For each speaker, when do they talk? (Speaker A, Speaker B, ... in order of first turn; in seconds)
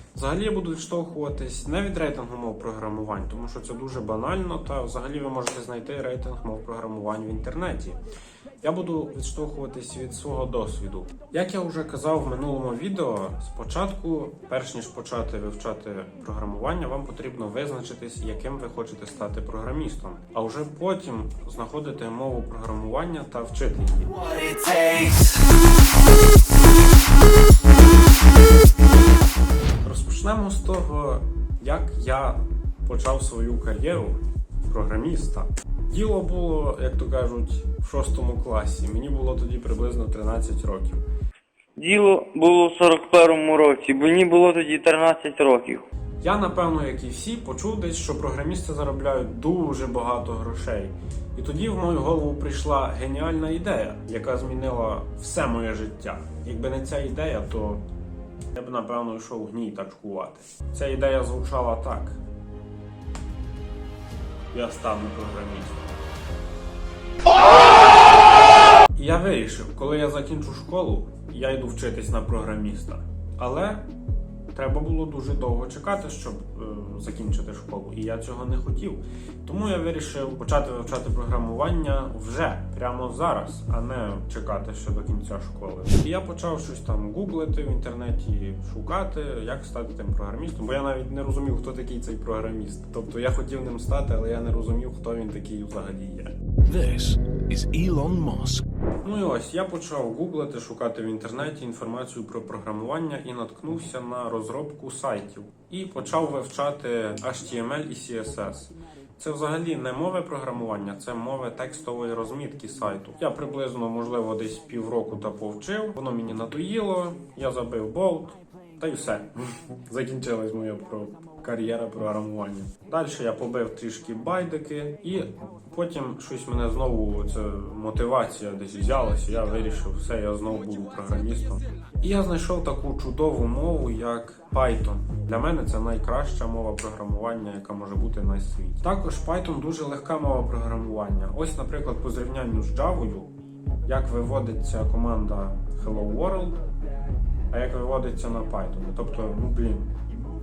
Speaker A: 0.1-8.0, 8.6-24.2, 29.8-41.0, 46.2-57.9, 58.5-62.2, 64.5-65.9, 68.9-73.9, 74.5-96.3, 99.0-143.3, 143.8-146.6, 147.5-149.9
Speaker B: 24.5-25.1, 41.8-45.9
Speaker C: 96.7-98.7